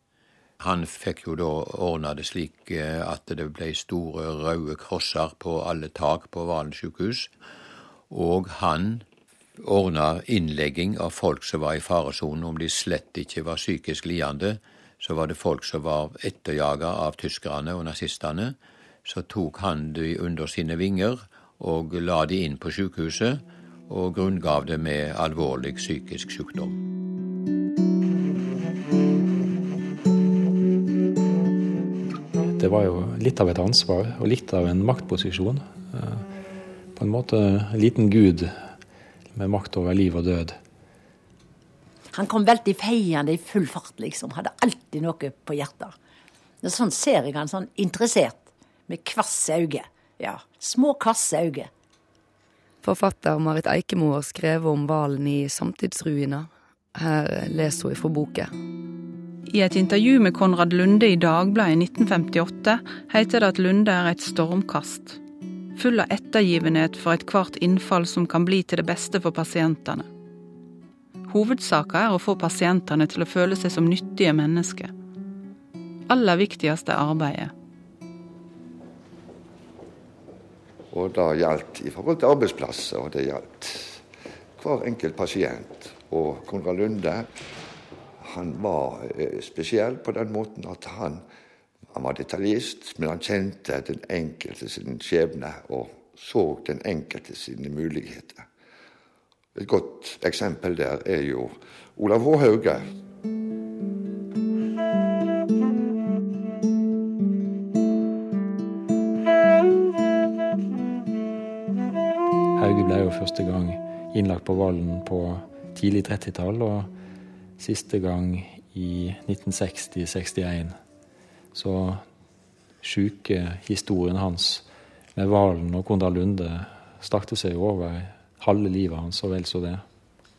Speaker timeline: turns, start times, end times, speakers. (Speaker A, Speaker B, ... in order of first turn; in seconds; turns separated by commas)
Speaker A: 0.6-7.3, Speaker A: 8.1-9.1, Speaker A: 9.6-26.8, Speaker B: 32.5-36.3, Speaker B: 37.0-38.7, Speaker B: 39.3-40.6, Speaker C: 42.1-45.9, Speaker C: 46.6-51.7, Speaker D: 52.8-58.5, Speaker E: 59.5-65.2, Speaker E: 65.8-70.1, Speaker E: 71.3-74.9, Speaker E: 76.1-77.5, Speaker F: 80.9-84.0, Speaker F: 84.6-87.3, Speaker F: 88.2-91.2, Speaker F: 91.9-98.5, Speaker F: 99.5-102.9, Speaker B: 112.6-116.9, Speaker B: 117.6-120.8, Speaker B: 121.5-122.0, Speaker B: 122.8-129.8